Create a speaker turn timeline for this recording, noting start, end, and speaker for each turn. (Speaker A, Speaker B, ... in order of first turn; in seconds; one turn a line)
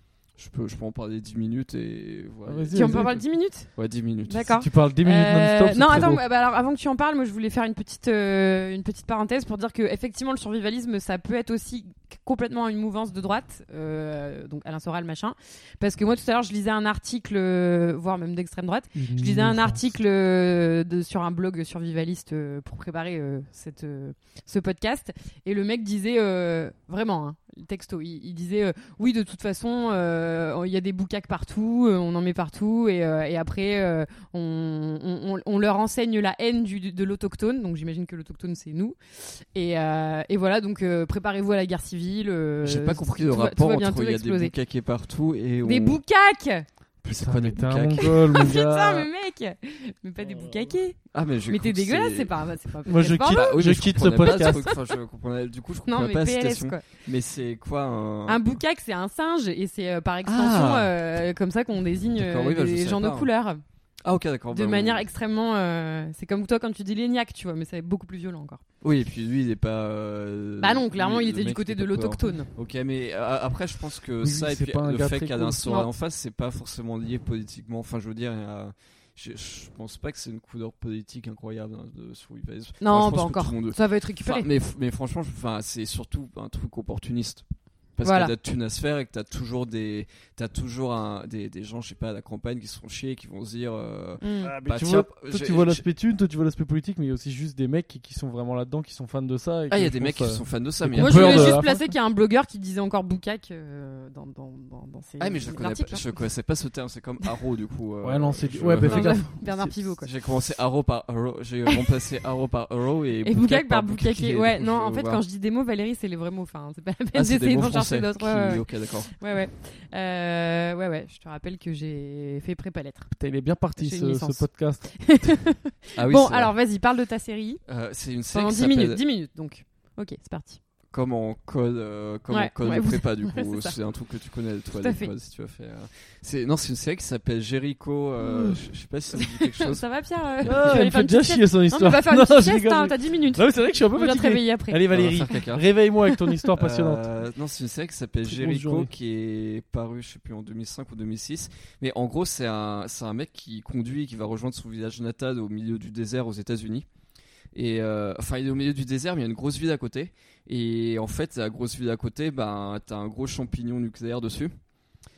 Speaker A: 0.4-3.2
Speaker B: 2.5-3.2
Speaker C: 2.7-3.7
Speaker A: 3.7-4.6
Speaker C: 4.3-44.5
Speaker B: 4.5-6.2
Speaker B: 19.0-19.8
Speaker A: 42.6-46.0
Speaker C: 45.6-46.7
Speaker A: 47.0-48.4
Speaker B: 47.1-49.1
Speaker C: 48.0-51.0
Speaker A: 51.1-52.4
Speaker C: 51.5-53.6
Speaker B: 52.9-54.6
Speaker A: 53.3-58.6
Speaker C: 54.2-54.8
Speaker C: 55.9-57.0
Speaker C: 58.3-63.6
Speaker A: 60.3-60.9
Speaker A: 62.2-63.3
Speaker A: 64.0-65.1
Speaker C: 64.5-68.6
Speaker A: 68.8-87.5
Speaker C: 70.6-72.5
Speaker B: 74.2-75.7
Speaker C: 82.8-84.5
Speaker A: 88.0-95.8
Speaker C: 88.0-88.3
Speaker C: 94.2-94.6
Speaker B: 94.4-101.9
Speaker A: 99.7-101.6
Speaker C: 101.0-106.1
Speaker A: 105.2-109.3
Speaker B: 108.0-109.7
Speaker C: 108.8-110.1
Speaker A: 110.0-115.2
Speaker C: 113.2-123.1
Speaker A: 117.1-119.1
Speaker B: 123.1-125.3
Speaker C: 123.8-127.6
Speaker A: 126.0-126.5
Speaker A: 127.7-129.0
Speaker C: 128.3-130.6
Speaker A: 130.9-139.8
Speaker C: 132.3-133.8
Speaker C: 134.8-135.1
Speaker C: 138.2-138.6
Speaker C: 139.2-144.8
Speaker B: 140.5-147.0
Speaker A: 144.9-145.7
Speaker C: 146.1-146.3
Speaker A: 146.5-156.9
Speaker B: 148.2-148.9
Speaker A: 157.5-164.5